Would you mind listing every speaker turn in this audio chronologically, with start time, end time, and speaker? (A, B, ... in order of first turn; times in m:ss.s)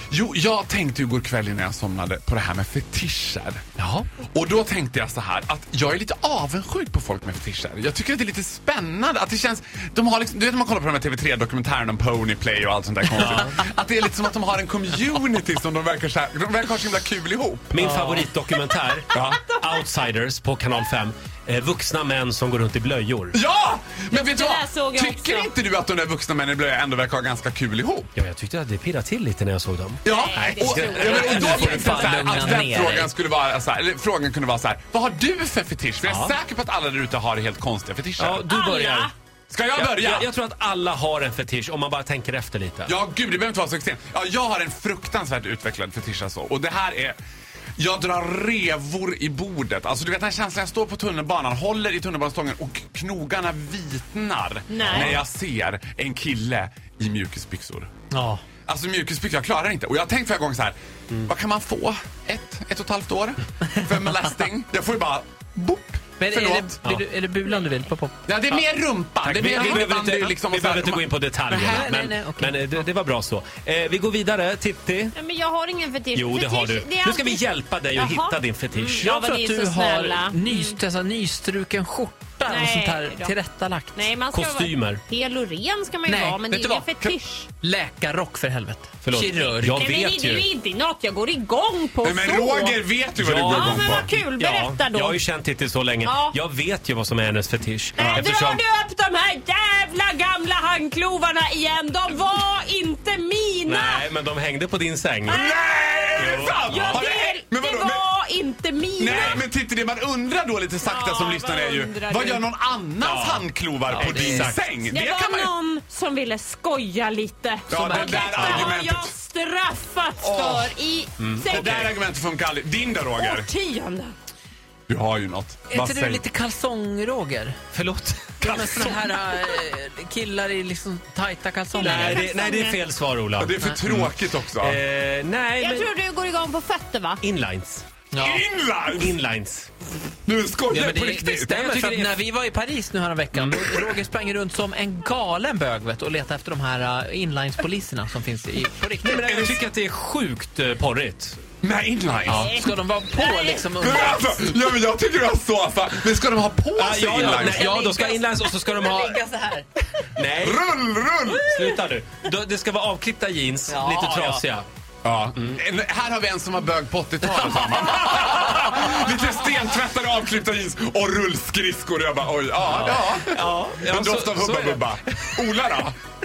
0:00.1-0:03.8 A
0:03.8-0:04.0 B
0:04.3-0:17.8 A
0:17.7-0:23.4 B
0:18.5-0:19.8 C
0:19.1-0:19.4 A
0:23.3-0:28.1 A
0:24.1-0:25.5 C
0:28.1-0:32.1 B
0:30.0-0:38.5 A
0:30.0-0:32.3 C
0:31.0-0:33.1 D
0:36.0-0:36.4 B
0:38.2-0:39.1 B
0:38.4-0:39.1 C
0:39.5-0:40.3 A
0:39.7-0:42.9 B
0:42.8-0:47.2 A
0:47.8-0:57.9 A
0:54.7-0:55.2 C
0:54.8-0:55.2 B
0:58.1-0:58.4 D
0:58.6-1:06.8 A
1:06.2-1:08.6 D
1:07.5-1:07.8 C
1:08.2-1:11.7 A
1:09.2-1:15.1 B
1:09.6-1:09.9 D
1:11.6-1:12.8 D
1:15.1-1:20.8 C
1:16.1-1:19.1 B
1:19.0-1:24.1 D
1:22.4-1:23.4 C
1:23.9-1:27.5 C
1:24.3-1:25.0 B
1:26.0-1:29.8 D
1:29.0-1:30.4 B
1:29.3-1:32.8 C
1:32.0-1:34.1 A
1:33.2-1:38.6 B
1:33.4-1:35.2 C
1:36.0-1:36.4 C
1:38.0-1:44.0 C
1:43.7-1:45.4 B
1:45.2-1:49.4 C
1:45.3-1:48.1 A
1:46.2-1:47.0 B
1:49.0-1:55.5 A
1:49.1-1:49.4 B
1:50.8-1:52.5 C
1:53.0-1:54.6 B
1:53.9-1:54.5 D
1:54.9-2:02.0 C
1:57.7-1:58.7 D
1:57.7-1:59.2 A
2:00.2-2:00.8 A
2:01.2-2:01.9 B
2:01.4-2:03.5 A
2:03.2-2:04.1 C
2:04.9-2:06.2 A
2:05.7-2:07.7 D
2:07.7-2:08.9 B
2:08.4-2:09.0 A
2:08.5-2:12.2 D
2:11.7-2:12.8 C
2:11.8-2:15.9 B
2:13.4-2:14.8 A
2:15.6-2:17.2 C
2:17.2-2:17.8 B
2:18.1-2:18.4 D
2:18.2-2:19.2 A
2:19.0-2:19.7 B
2:20.2-2:21.6 A
2:20.7-2:29.6 D
2:21.5-2:22.1 B
2:29.0-2:31.4 B
2:31.6-2:32.4 A
2:32.2-2:33.8 C
2:32.2-2:34.6 D
2:33.8-2:37.6 A
2:36.8-2:39.2 B
2:37.2-2:39.6 D
2:37.6-2:38.2 C
2:40.2-2:40.6 B
2:40.3-2:41.4 A
2:41.3-2:44.7 B
2:43.7-2:44.4 D
2:45.0-2:56.0 A
2:52.7-2:53.2 D
2:53.3-2:54.8 B